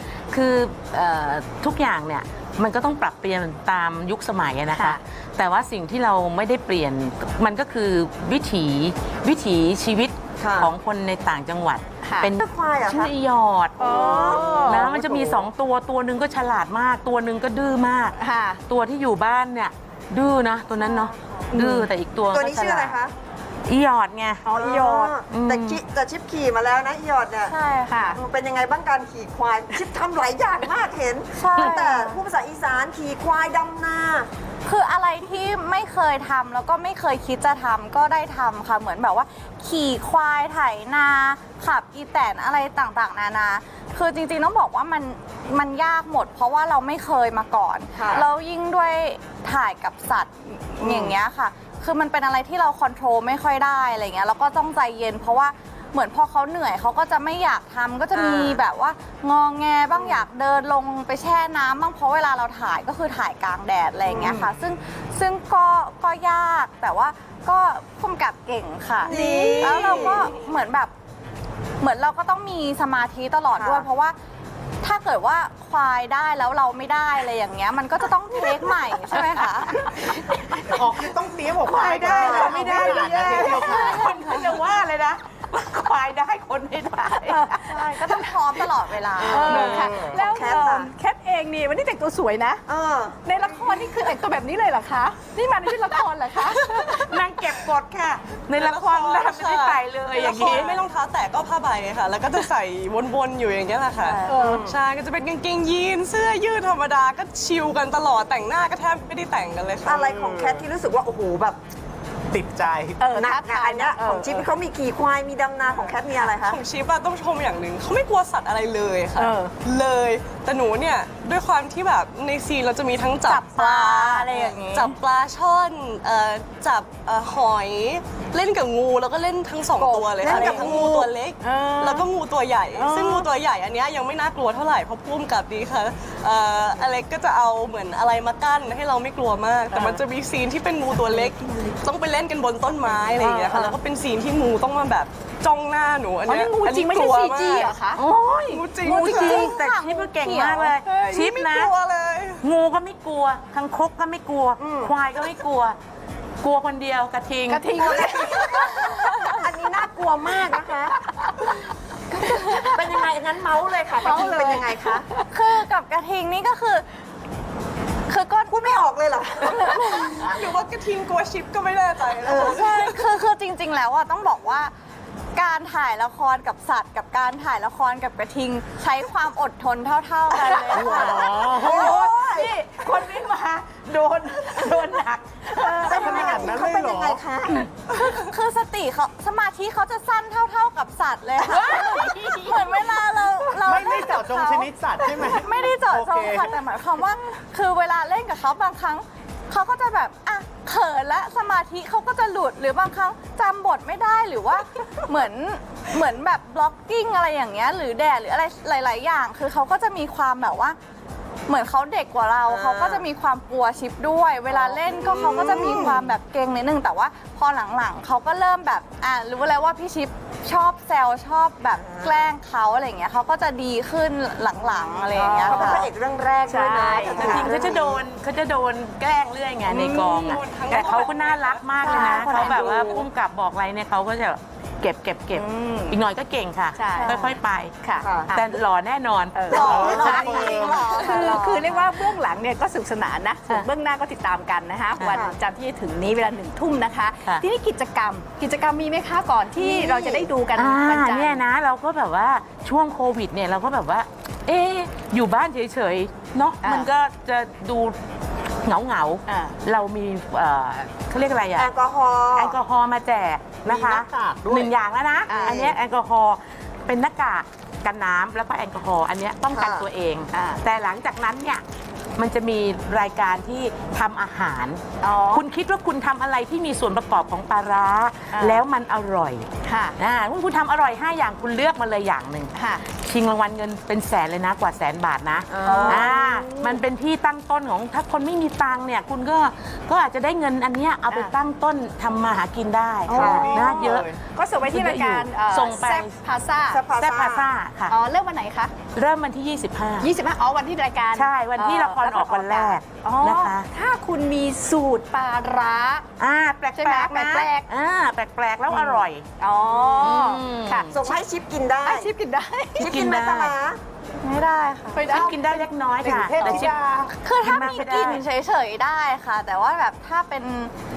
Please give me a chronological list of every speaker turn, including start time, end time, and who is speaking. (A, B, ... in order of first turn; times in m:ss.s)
0:00.3-0:14.1 A
0:04.7-0:05.0 B
0:10.4-0:10.7 C
0:12.0-0:12.3 B
0:12.4-0:13.1 C
0:13.8-0:14.8 B
0:13.8-0:15.0 C
0:14.6-0:18.1 A
0:14.8-0:15.2 D
0:18.2-0:18.6 B
0:18.7-0:23.0 A
0:20.8-0:21.5 E
0:21.5-0:21.9 B
0:22.3-0:23.1 C
0:23.6-0:24.4 A
0:24.4-0:25.2 B
0:24.5-0:34.3 C
0:25.3-0:25.8 A
0:27.5-0:28.0 E
0:27.9-0:28.2 B
0:31.4-0:32.2 E
0:34.6-1:10.9 E
0:48.0-0:48.3 C
0:50.8-0:51.2 C
0:58.1-0:58.6 C
0:59.9-1:00.2 C
1:04.0-1:04.5 C
1:09.0-1:10.4 C
1:11.8-1:14.1 E
1:13.5-1:13.8 C
1:14.8-1:19.8 E
1:19.8-1:20.8 A
1:20.6-1:24.1 D
1:21.6-1:28.2 A
1:22.0-1:23.7 C
1:27.2-1:27.8 B
1:27.7-1:29.4 E
1:29.2-1:30.9 C
1:29.3-1:32.6 B
1:29.5-1:29.9 A
1:29.6-1:30.2 D
1:32.7-1:33.4 C
1:33.2-1:36.8 B
1:33.8-1:34.1 F
1:36.4-1:37.5 F
1:36.9-1:40.8 A
1:38.5-1:50.0 F
1:44.0-1:44.3 A
1:44.4-1:44.8 C
1:49.8-1:51.6 C
1:50.0-1:50.6 D
1:52.3-1:53.0 D
1:53.0-1:54.5 B
1:53.1-1:56.6 C
1:55.6-2:27.7 F
1:59.2-1:59.5 B
2:03.2-2:05.0 E
2:09.8-2:10.6 B
2:10.2-2:11.1 C
2:11.4-2:12.1 B
2:12.7-2:13.3 B
2:19.7-2:20.0 B
2:23.2-2:23.7 B
2:26.2-2:28.0 B
2:27.8-2:31.7 A
2:28.5-2:29.5 F
2:28.9-2:30.8 E
2:30.8-2:32.4 F
2:32.4-2:35.8 A
2:34.6-2:34.9 C
2:36.4-2:38.1 A
2:37.5-2:39.4 B
2:37.7-2:41.0 C
2:42.1-2:45.1 C
2:42.4-2:42.7 E
2:44.0-2:45.2 B
2:45.3-2:46.8 E
2:48.1-2:48.8 E
2:48.4-2:50.1 C
2:49.4-2:50.3 E
2:50.2-2:53.1 F
2:52.2-2:52.5 C
2:52.5-2:54.7 E
2:55.4-3:01.4 E
3:00.3-3:06.6 A
3:00.8-3:01.9 D
3:01.4-3:02.5 C
3:05.6-3:07.7 C
3:05.8-3:07.2 D
3:07.9-3:30.8 E
3:11.4-3:13.5 A
3:13.6-3:16.6 D
3:31.5-3:45.9 E
3:32.4-3:33.1 C
3:34.5-3:36.2 C
3:41.7-3:42.3 C
3:44.7-3:48.0 C
3:45.4-3:45.8 A
3:46.4-3:47.6 B
3:47.1-3:57.7 A
3:49.7-3:50.9 B
3:49.8-3:50.2 E
3:50.3-3:53.1 F
3:51.8-3:52.6 E
3:52.0-3:52.8 B
3:55.3-3:56.0 B
3:56.8-3:58.6 B
3:58.0-3:58.3 C
3:58.3-4:00.8 A
3:59.3-4:11.4 B
3:59.5-4:01.2 C
3:59.6-4:01.4 D
4:01.1-4:02.0 E
4:05.1-4:05.4 C
4:09.6-4:10.3 C
4:10.5-4:18.0 A
4:16.6-4:16.9 B
4:18.6-4:21.7 A
4:19.3-4:19.5 B
4:21.6-4:22.6 C
4:22.3-4:31.6 A
4:23.6-4:24.7 D
4:25.3-4:25.7 C
4:29.5-4:29.9 C
4:30.3-4:30.6 B
4:32.2-4:39.5 A
4:35.0-4:35.4 B
4:38.3-4:38.6 B
4:39.6-4:39.9 B
4:40.0-4:56.1 A
4:42.5-4:42.8 B
4:45.5-4:46.2 C
4:45.6-4:46.8 B
4:53.1-4:56.8 B
4:53.1-4:54.2 D
4:53.1-4:53.6 C
4:56.7-4:57.5 C
4:57.0-4:57.9 A
4:57.9-4:58.7 B
4:58.9-5:00.1 A
5:00.0-5:06.0 B
5:01.1-5:03.7 A
5:06.2-5:09.2 A
5:06.7-5:07.6 B
5:08.7-5:11.2 B
5:10.0-5:10.9 A
5:10.9-5:12.1 C
5:11.8-5:12.9 B
5:12.8-5:13.8 C
5:12.8-5:13.5 A
5:14.2-5:15.2 E
5:14.9-5:15.6 B
5:15.1-5:18.2 A
5:16.0-5:17.1 D
5:17.2-5:20.7 E